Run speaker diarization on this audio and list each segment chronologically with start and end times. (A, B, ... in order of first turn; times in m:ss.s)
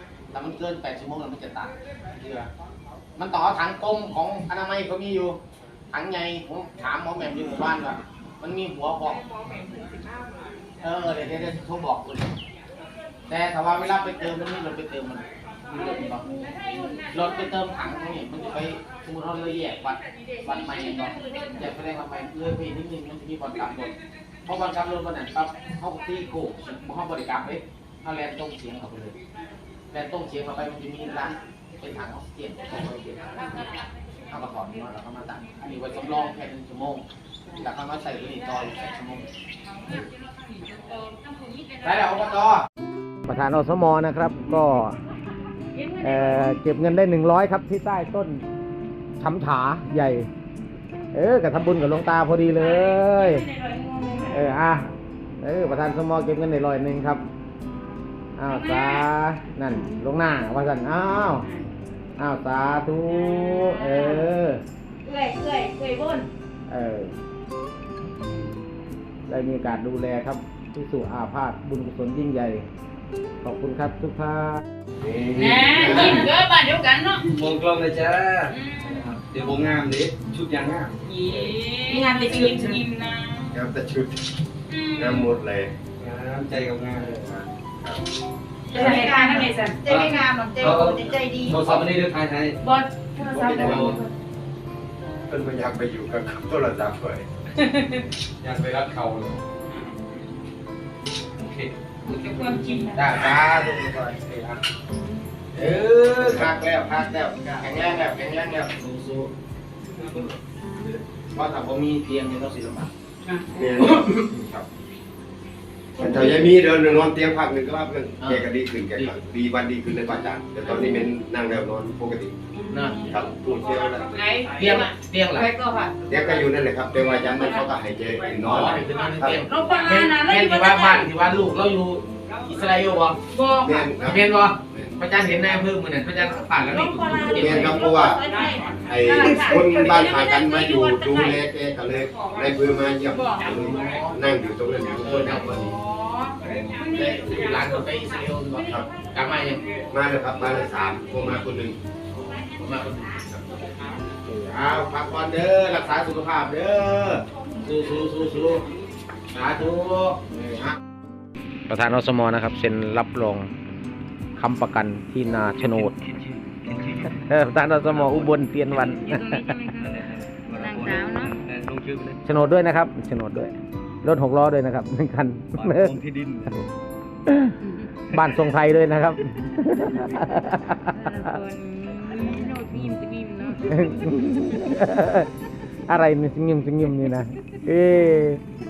0:00.3-0:02.5 A
0:03.2-0:05.4 A
0:05.9-0:09.3 A
0:09.3-0:10.5 B
0:10.8-0:12.3 A
0:13.3-0:16.2 A
0:15.8-0:17.1 B
0:17.1-0:23.9 A
0:21.0-0:21.4 C
0:24.4-0:29.2 A
0:29.9-0:33.7 A
0:34.3-0:37.0 A
0:37.6-0:39.3 A
0:39.7-0:42.2 C
0:41.8-0:42.6 A
0:43.3-0:45.0 A
0:45.8-0:46.4 C
0:46.0-0:48.4 A
0:49.2-0:50.3 A
0:51.1-0:53.4 A
0:52.5-0:54.5 C
0:54.3-0:57.2 A
0:58.4-1:01.5 A
0:58.5-0:59.1 C
1:01.4-1:01.7 C
1:02.2-1:04.6 A
1:03.1-1:04.3 C
1:05.0-1:06.3 C
1:06.7-1:07.1 A
1:09.3-1:12.7 A
1:13.4-1:14.6 A
1:15.0-1:16.2 D
1:15.3-1:17.3 C
1:17.3-1:21.5 E
1:18.5-1:19.0 C
1:21.0-1:23.6 C
1:23.5-1:24.3 D
1:24.7-1:25.3 C
1:24.9-1:25.8 D
1:26.0-1:27.2 E
1:27.0-1:28.0 D
1:28.7-1:31.4 C
1:28.8-1:29.2 E
1:28.9-1:29.4 B
1:29.8-1:32.6 E
1:30.0-1:31.2 B
1:31.5-1:31.8 D
1:32.6-1:33.7 C
1:33.2-1:34.0 D
1:33.6-1:34.0 E
1:35.3-1:37.3 D
1:38.4-1:39.4 E
1:41.4-1:41.7 E
1:42.1-1:43.0 C
1:42.9-1:44.6 A
1:45.5-1:49.3 A
1:46.1-1:46.5 D
1:47.3-1:47.8 D
1:51.3-1:52.9 A
1:53.5-1:54.2 D
1:53.8-1:54.6 A
1:56.0-2:02.3 D
1:56.0-1:56.5 A
1:58.2-1:59.2 A
2:00.7-2:00.9 C
2:02.6-2:03.3 C
2:02.7-2:03.0 A
2:03.0-2:04.2 D
2:04.1-2:06.3 C
2:04.5-2:05.5 A
2:06.1-2:09.4 D
2:07.1-2:07.7 C
2:08.4-2:13.2 A
2:09.3-2:11.1 C
2:13.3-2:14.0 C
2:13.5-2:15.0 D
2:14.0-2:17.9 A
2:16.7-2:21.3 C
2:17.3-2:25.8 D
2:23.1-2:23.5 C
2:23.5-2:24.2 A
2:25.0-2:25.7 A
2:25.6-2:27.3 C
2:26.9-2:29.6 A
2:28.5-2:28.9 D
2:29.9-2:31.8 D
2:32.1-2:33.2 A
2:34.3-2:38.7 A
2:39.3-2:40.8 A
2:41.7-2:43.5 A
2:44.4-2:46.0 A
2:46.2-2:47.2 E
2:47.1-2:49.6 A
2:47.9-2:49.0 E
2:49.0-2:51.4 C
2:49.8-2:52.2 E
2:52.2-2:56.0 A
2:55.6-2:56.7 E
2:57.3-2:57.5 A
2:57.6-2:57.9 C
2:58.1-3:01.2 A
3:00.8-3:03.7 C
3:03.6-3:05.3 A
3:05.9-3:08.4 A